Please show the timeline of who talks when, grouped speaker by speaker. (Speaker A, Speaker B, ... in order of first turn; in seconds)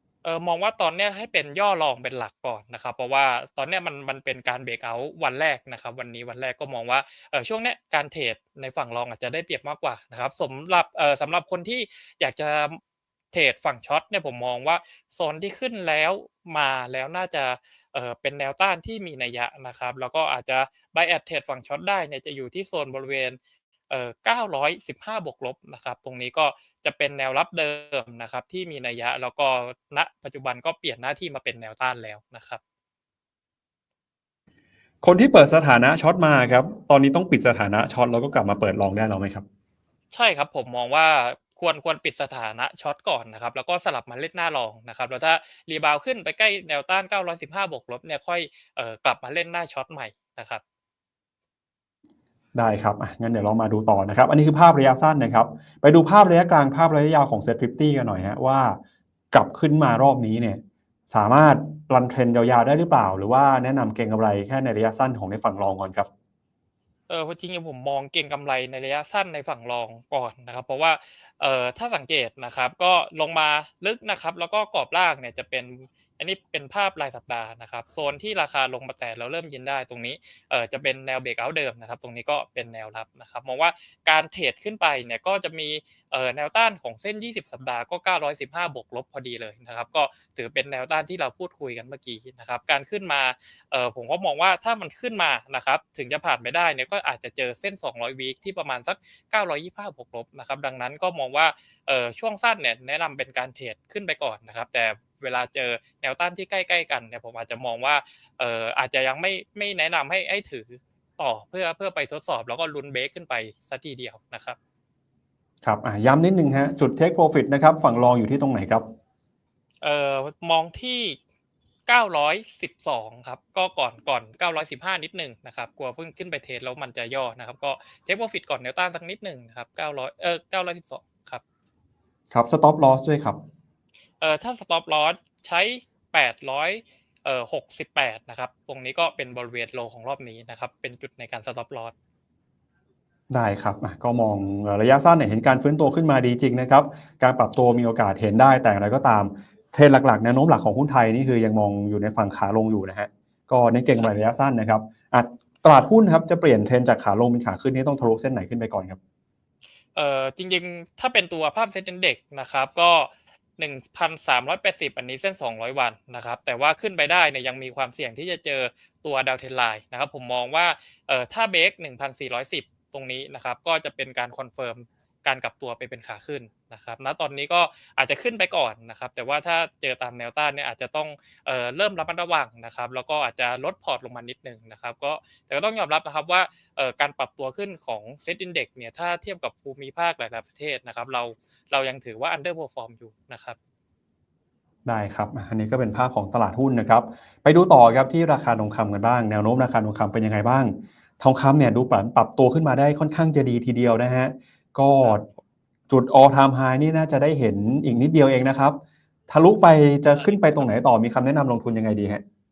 Speaker A: 0.2-12.8, 13.3-23.4, 23.9-32.6, 40.1-50.6, 67.1-114.6, 119.8-121.2, 121.9-131.4, 134.2-141.9, 159.9-193.6
Speaker B: 35.0-39.4, 52.5-58.8, 59.3-66.1, 115.6-118.8, 132.3-133.4, 143.3-159.0, 194.8-205.2, 205.9-212.2